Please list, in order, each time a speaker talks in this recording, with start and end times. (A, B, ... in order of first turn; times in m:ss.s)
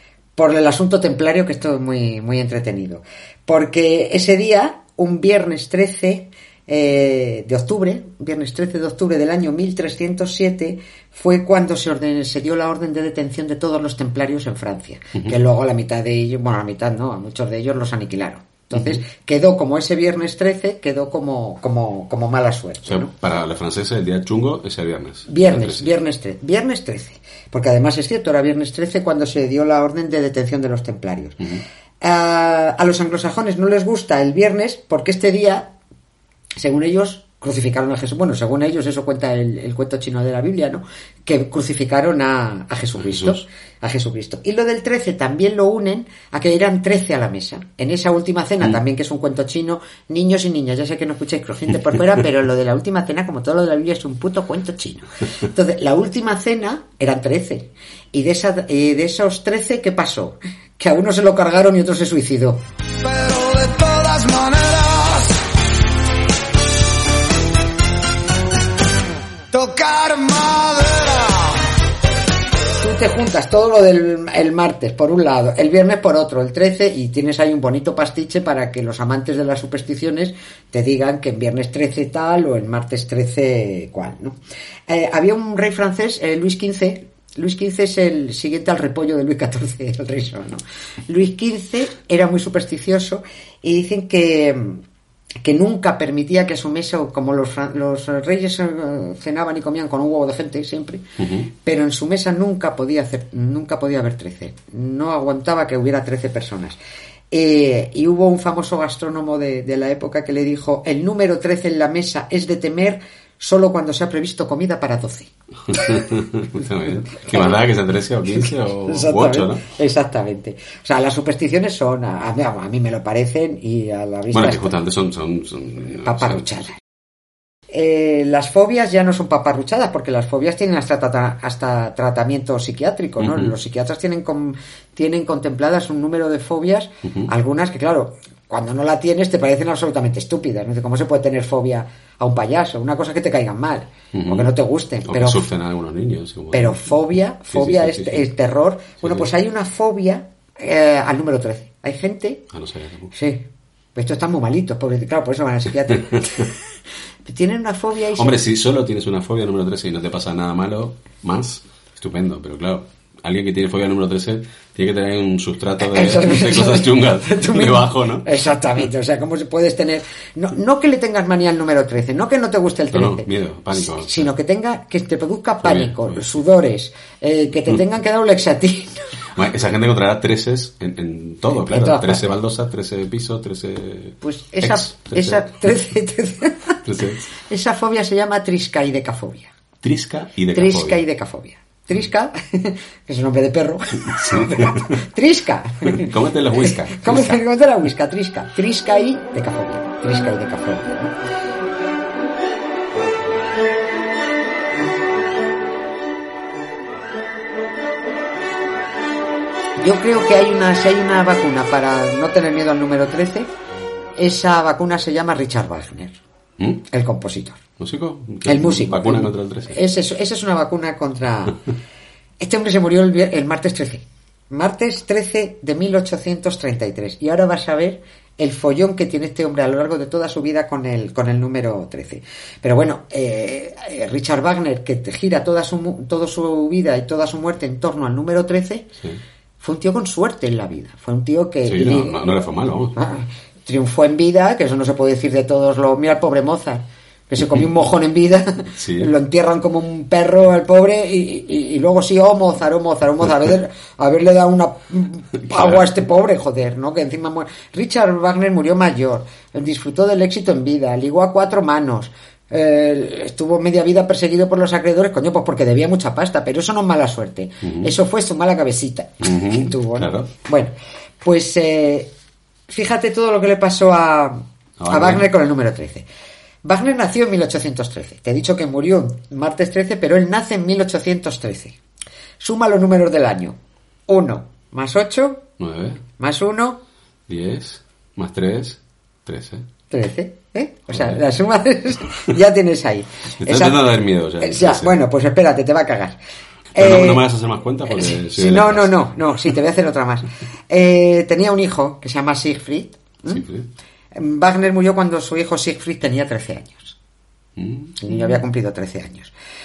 0:00.4-0:23.1 A
0:22.9-0:25.9 B
0:25.3-0:31.4 A
0:32.0-0:35.8 A
0:36.6-1:02.6 A
0:43.0-0:43.4 B
1:03.0-1:05.4 C
1:09.5-1:11.6 C
1:12.8-1:34.8 A
1:35.4-1:41.0 A
1:41.2-1:41.5 B
1:41.6-1:46.8 A
1:47.3-1:56.0 A
1:55.7-1:59.6 B
1:57.3-1:57.6 A
1:58.3-2:04.8 A
2:04.3-2:06.6 B
2:06.0-2:06.8 A
2:07.7-2:25.5 A
2:13.2-2:13.5 B
2:17.0-2:17.3 B
2:24.1-2:24.5 B
2:25.0-2:27.0 B
2:26.5-2:32.4 A
2:27.5-2:28.3 B
2:29.0-2:29.3 B
2:32.5-2:33.1 B
2:33.1-2:36.6 A
2:37.2-2:38.4 A
2:38.2-2:48.3 B
2:45.8-2:59.1 A
2:52.9-2:54.3 B
2:55.6-2:56.4 B
2:59.4-3:05.7 B
3:01.6-3:02.3 A
3:04.2-3:06.8 A
3:06.8-3:07.3 B
3:07.4-3:09.5 A
3:09.8-3:11.0 B
3:10.5-3:16.1 A
3:14.0-3:15.0 B
3:15.8-3:17.4 B
3:16.6-3:21.1 A
3:29.8-3:33.5 A
3:34.2-3:36.2 A
3:36.9-3:37.6 A
3:37.8-3:39.8 B
3:38.5-3:41.6 A
3:42.4-3:58.9 A
3:59.6-4:02.2 A
4:01.6-4:03.0 B
4:02.9-4:32.1 A
4:08.8-4:09.1 B
4:15.5-4:15.8 B
4:27.6-4:27.9 B
4:29.2-4:30.3 B
4:32.7-4:36.1 A
4:34.8-4:35.3 B
4:36.6-4:41.8 A
4:42.4-4:43.6 A
4:44.1-4:45.5 A
4:45.6-4:46.0 B
4:46.2-4:46.8 A
4:47.3-4:49.7 B
4:49.9-4:56.2 A
4:50.9-4:51.2 B
4:53.4-4:55.0 B
4:56.8-4:57.3 A
4:56.8-4:59.1 B
4:57.9-5:03.4 A
5:03.3-5:03.7 B
5:04.1-5:07.0 A
5:07.6-5:08.0 B
5:08.0-5:09.3 A